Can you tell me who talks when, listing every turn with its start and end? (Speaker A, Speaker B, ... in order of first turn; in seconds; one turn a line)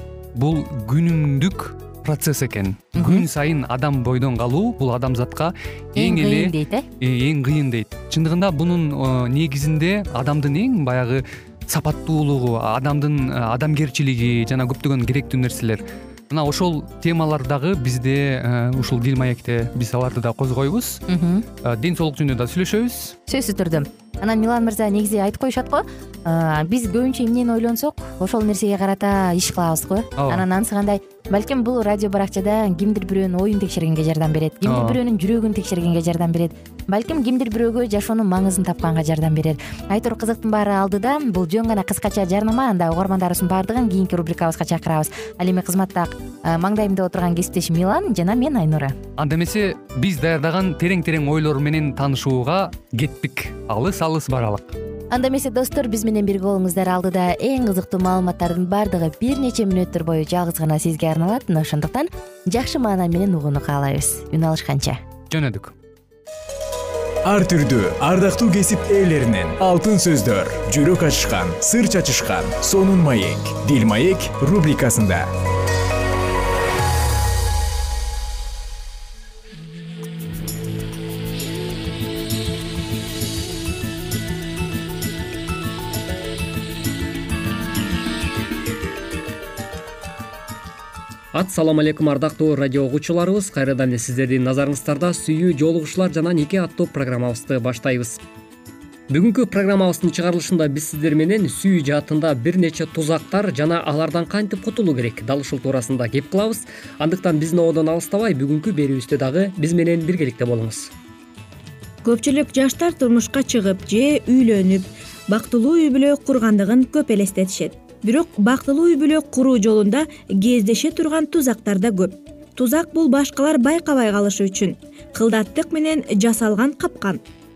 Speaker A: 0.3-21.0
Speaker B: 3.0-3.2
Speaker B: 5.9-6.8
Speaker B: 21.1-21.4
Speaker A: 21.6-23.1
Speaker B: 23.3-49.0
Speaker A: 30.2-30.4
Speaker A: 34.6-35.0
Speaker A: 49.2-54.8
Speaker B: 55.1-65.0
Speaker A: 65.3-65.7
Speaker C: 67.2-75.3
Speaker D: 91.3-98.2
Speaker D: 99.1-110.9
Speaker E: 112.0-127.2